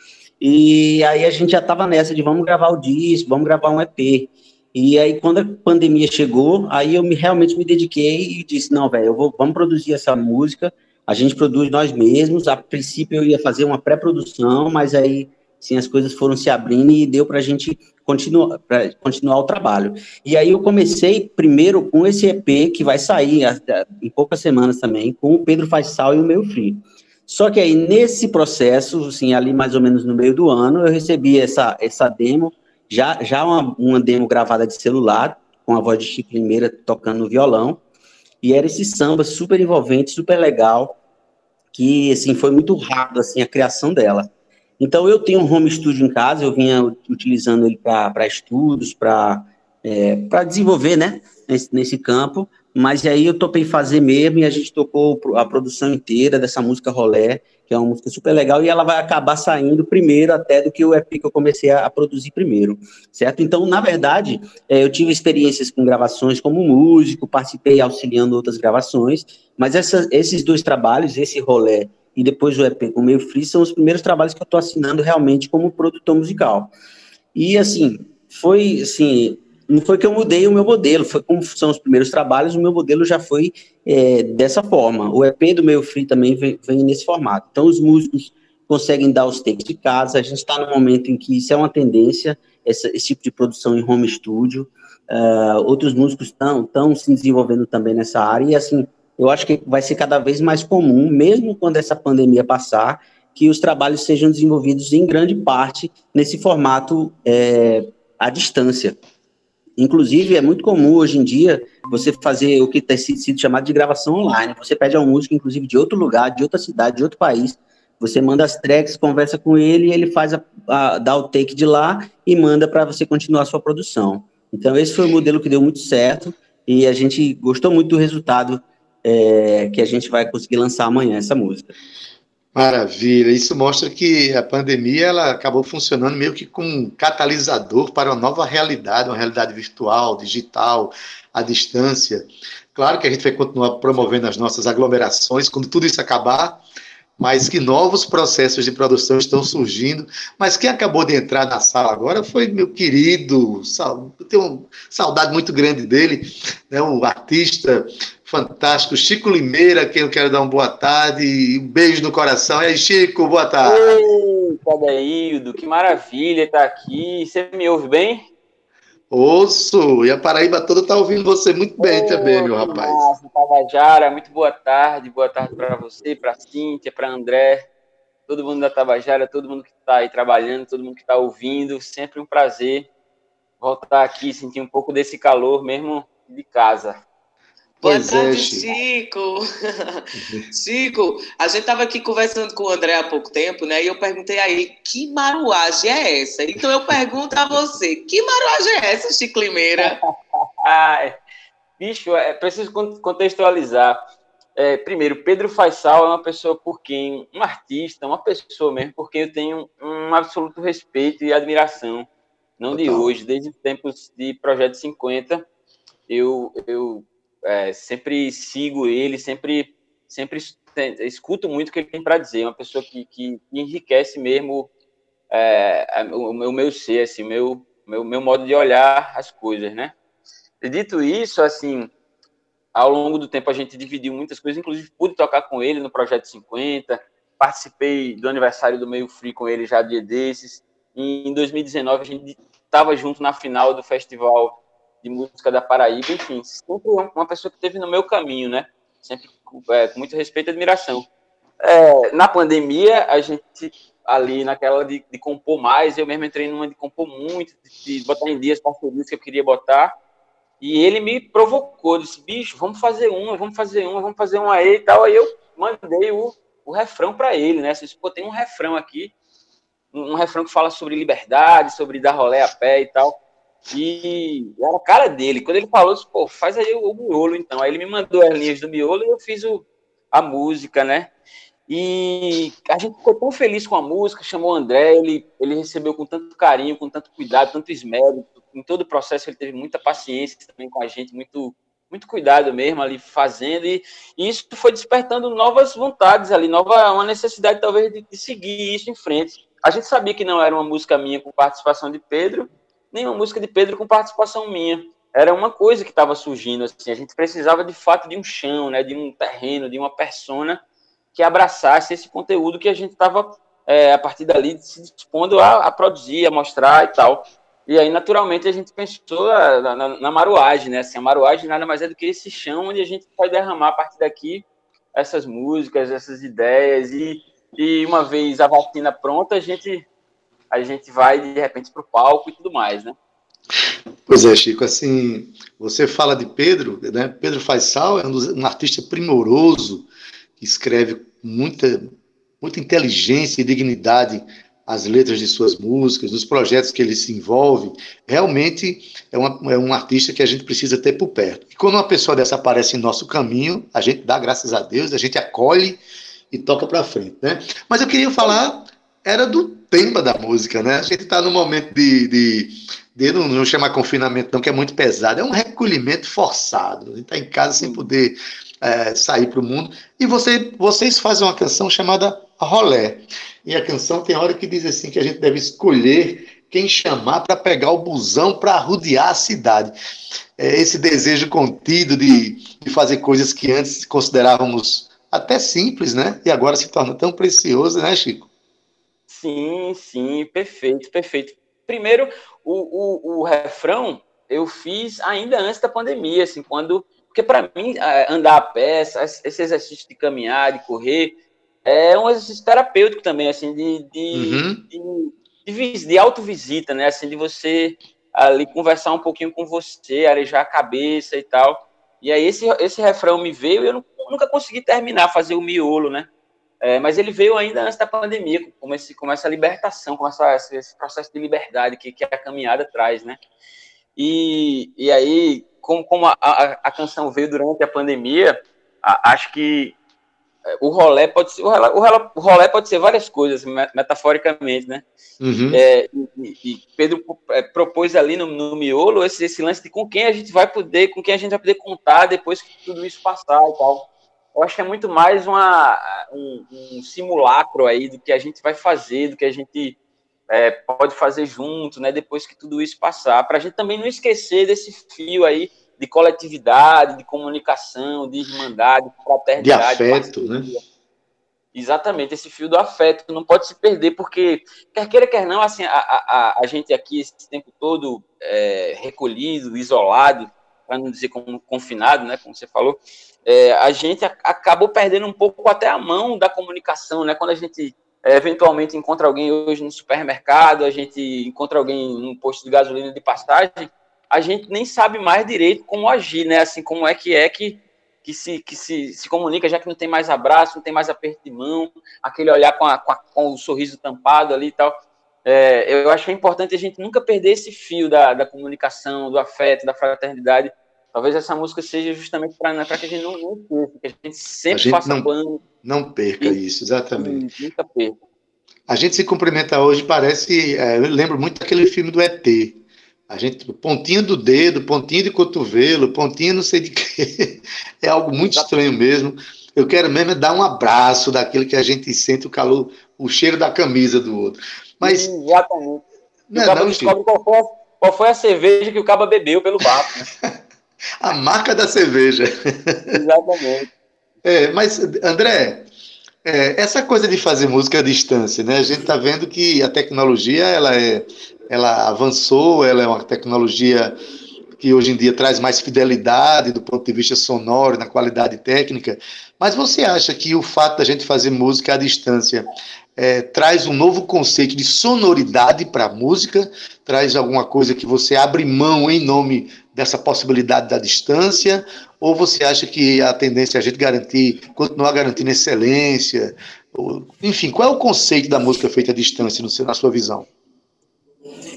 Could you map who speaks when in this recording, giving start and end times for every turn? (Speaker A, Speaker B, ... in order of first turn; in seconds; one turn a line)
Speaker A: 0.4-37.8
Speaker A: 38.4-41.0
Speaker A: 41.7-44.3
Speaker A: 44.8-76.7
Speaker A: 77.3-109.0
Speaker A: 109.8-131.7
Speaker B: 132.6-146.6
Speaker B: 147.2-164.0
Speaker C: 163.6-168.2
Speaker B: 169.1-173.1
Speaker C: 171.8-177.7
Speaker C: 178.3-182.9
Speaker C: 183.6-187.0
Speaker D: 187.8-200.0
Speaker B: 187.8-188.7
Speaker C: 199.8-201.2
Speaker C: 201.8-204.0
Speaker C: 204.6-212.1
Speaker C: 212.6-215.5
Speaker B: 212.7-213.1
Speaker C: 216.1-224.7
Speaker C: 225.3-229.9
Speaker C: 230.6-231.9
Speaker C: 232.8-251.1
Speaker C: 251.6-259.9
Speaker C: 260.6-269.1
Speaker C: 269.9-273.2
Speaker C: 273.7-281.1
Speaker C: 281.7-310.6
Speaker C: 311.1-324.4
Speaker C: 324.9-329.9
Speaker C: 330.5-333.0
Speaker B: 334.1-339.9
Speaker B: 340.4-341.9
Speaker B: 342.4-355.8
Speaker B: 356.3-379.7
Speaker C: 367.6-367.8
Speaker B: 380.4-388.3
Speaker C: 389.1-416.1
Speaker B: 404.1-404.6
Speaker C: 416.6-423.2
Speaker C: 424.0-429.8
Speaker C: 430.6-434.8
Speaker B: 435.2-435.6
Speaker C: 435.5-449.8
Speaker C: 450.3-460.6
Speaker B: 459.4-460.5
Speaker C: 461.5-505.4
Speaker B: 504.5-505.1
Speaker B: 505.6-507.2
Speaker C: 507.0-508.0
Speaker B: 508.7-525.1
Speaker C: 524.8-525.8
Speaker B: 526.3-527.0
Speaker C: 526.4-530.1
Speaker B: 531.0-533.0
Speaker C: 532.9-533.7
Speaker B: 534.2-535.7
Speaker B: 536.2-544.0
Speaker B: 544.6-552.5
Speaker B: 553.0-570.3